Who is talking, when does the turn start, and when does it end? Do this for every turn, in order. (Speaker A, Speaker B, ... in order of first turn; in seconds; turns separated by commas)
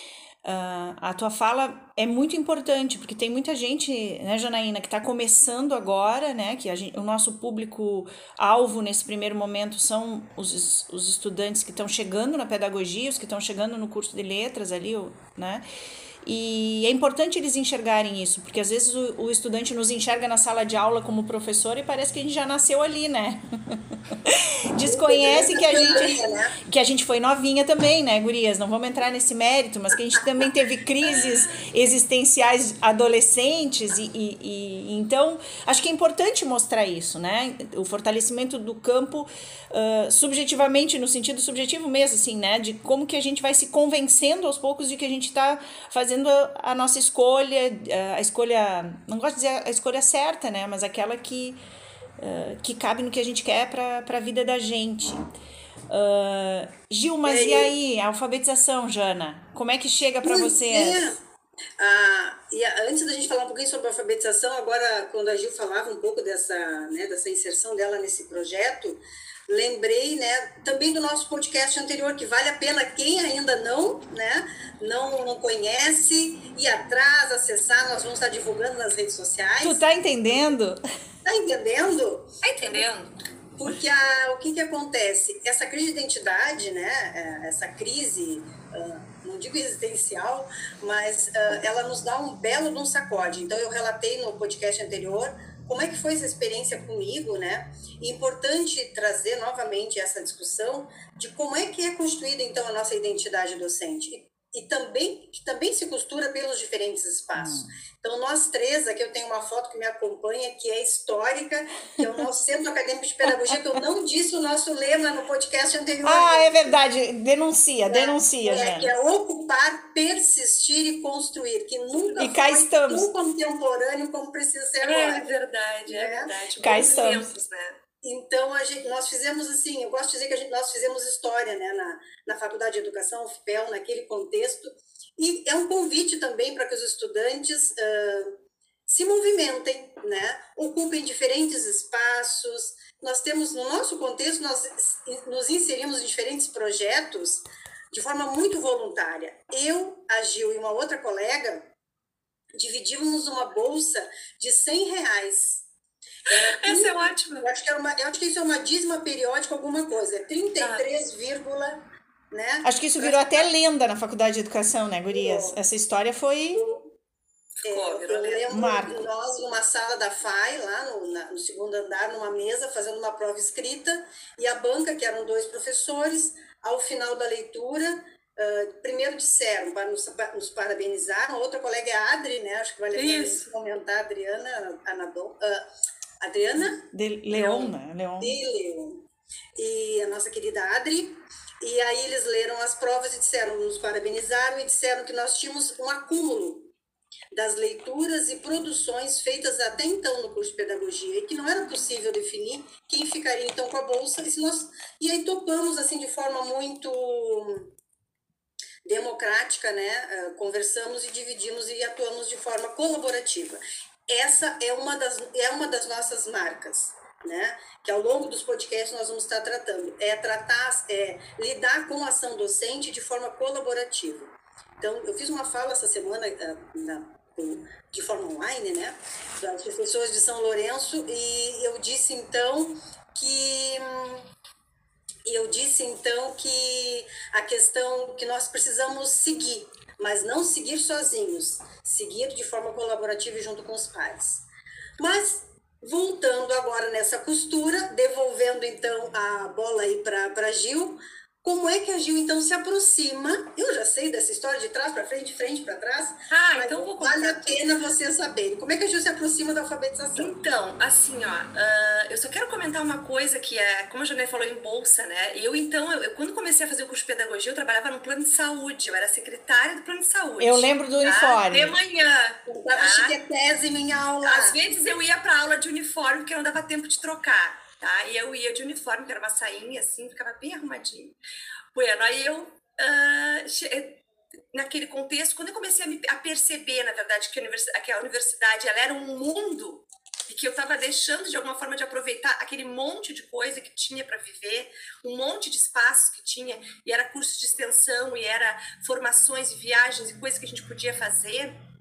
Speaker A: 0.4-15.6, Speaker A: 16.2-51.6, Speaker B: 24.8-26.6, Speaker A: 52.2-55.2, Speaker A: 55.9-61.0, Speaker B: 57.2-57.7, Speaker B: 60.2-61.2, Speaker B: 61.8-79.8, Speaker A: 79.6-80.8, Speaker B: 81.2-82.8, Speaker C: 82.4-83.1, Speaker B: 83.5-116.8, Speaker A: 107.3-107.7, Speaker A: 113.3-113.8, Speaker A: 116.0-118.9, Speaker B: 117.9-125.3, Speaker A: 122.2-123.1, Speaker C: 124.8-127.8, Speaker B: 125.9-126.3, Speaker A: 126.6-127.3, Speaker B: 128.0-138.3, Speaker B: 138.9-151.7, Speaker B: 152.5-155.6, Speaker C: 156.3-157.5, Speaker B: 156.3-163.5, Speaker C: 160.6-160.9, Speaker A: 162.6-166.6, Speaker B: 165.1-165.6, Speaker B: 166.5-166.9, Speaker C: 167.6-168.4, Speaker B: 167.6-185.6, Speaker A: 168.5-169.0, Speaker C: 182.9-183.5, Speaker B: 186.2-189.0, Speaker A: 186.9-188.4, Speaker B: 189.6-196.7, Speaker B: 197.3-207.7, Speaker B: 208.8-234.2, Speaker B: 235.2-244.4, Speaker B: 245.0-260.3, Speaker C: 256.3-257.6, Speaker C: 260.1-273.1, Speaker A: 270.4-271.8, Speaker B: 272.5-274.6, Speaker C: 274.2-281.1, Speaker C: 281.7-284.0, Speaker C: 284.5-301.5